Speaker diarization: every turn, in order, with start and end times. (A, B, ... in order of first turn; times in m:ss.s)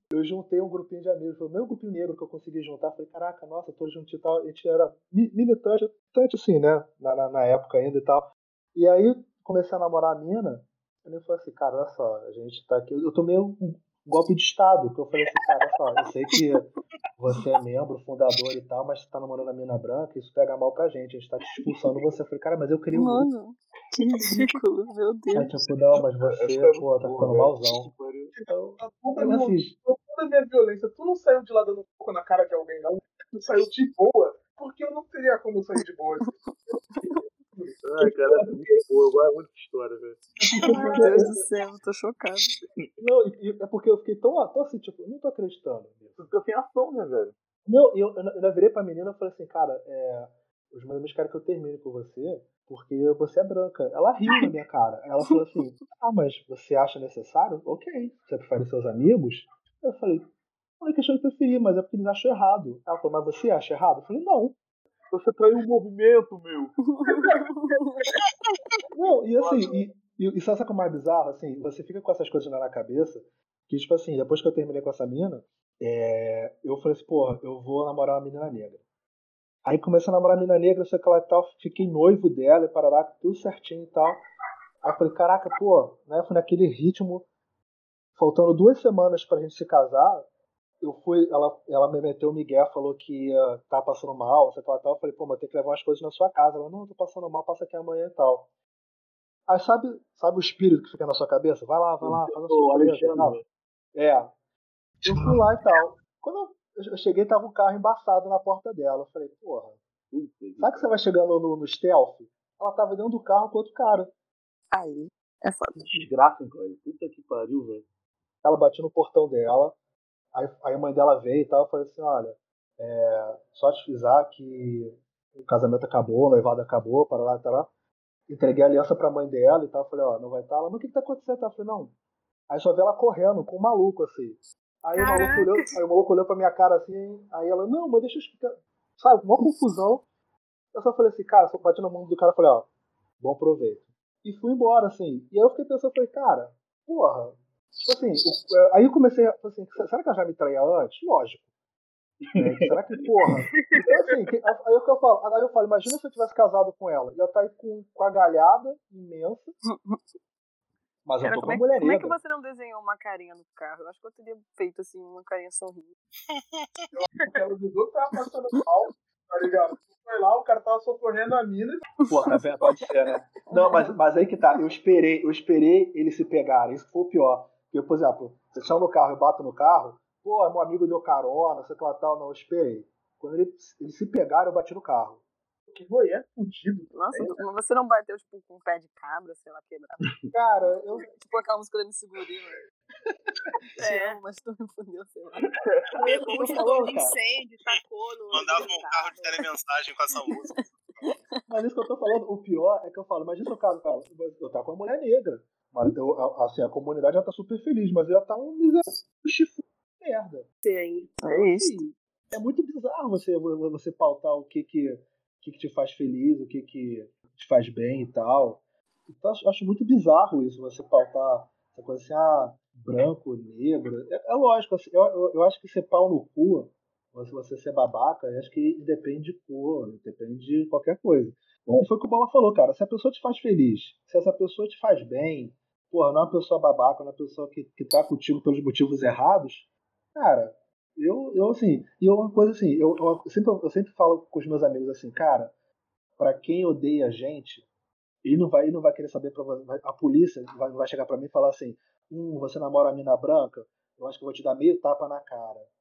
0:00.1-0:23.3 A
0:22.9-0:25.6 B
0:25.3-0:27.9 A
0:26.2-0:28.3 C
0:28.3-0:38.7 D
0:28.5-0:29.7 A
0:36.2-0:37.2 B
0:37.8-0:40.3 C
0:40.4-0:41.5 D
0:40.7-0:42.6 B
0:43.0-0:46.2 A
0:46.2-0:47.3 C
0:47.6-1:00.3 A
1:00.8-1:04.6 A
1:05.1-1:06.8 C
1:06.9-1:08.0 B
1:07.2-1:07.8 D
1:08.9-1:18.8 A
1:09.4-1:09.7 C
1:19.6-1:24.2 A
1:24.8-1:27.3 A
1:28.2-1:30.3 A
1:30.8-1:38.5 A
1:39.5-1:43.4 A
1:42.0-1:43.4 C
1:43.9-1:44.3 A
1:45.0-1:49.8 A
1:50.1-1:50.7 C
1:50.6-1:54.1 A
1:54.7-1:56.0 B
1:55.8-1:57.8 C
1:58.4-1:59.8 A
2:00.3-2:07.7 A
2:08.3-2:11.9 A
2:12.5-2:20.0 A
2:14.9-2:15.5 E
2:20.7-2:22.7 A
2:23.2-2:31.4 A
2:32.2-2:33.0 C
2:32.4-2:39.5 A
2:39.6-2:40.0 B
2:41.0-2:42.2 A
2:41.2-2:45.9 B
2:46.3-2:46.9 F
2:46.9-2:52.0 D
2:52.0-2:52.9 B
2:52.1-3:05.2 A
2:53.4-2:53.9 B
3:05.7-3:07.4 D
3:06.9-3:10.0 B
3:10.0-3:10.3 C
3:10.3-3:11.1 A
3:10.9-3:12.6 B
3:13.8-3:15.5 B
3:13.8-3:14.2 E
3:15.4-3:16.0 C
3:16.0-3:19.3 E
3:16.3-3:17.2 A
3:18.3-3:21.1 F
3:21.0-3:21.4 B
3:21.5-3:30.5 A
3:30.6-3:31.2 E
3:31.2-3:31.9 B
3:31.2-4:05.5 A
4:06.2-4:07.7 A
4:08.2-4:15.7 A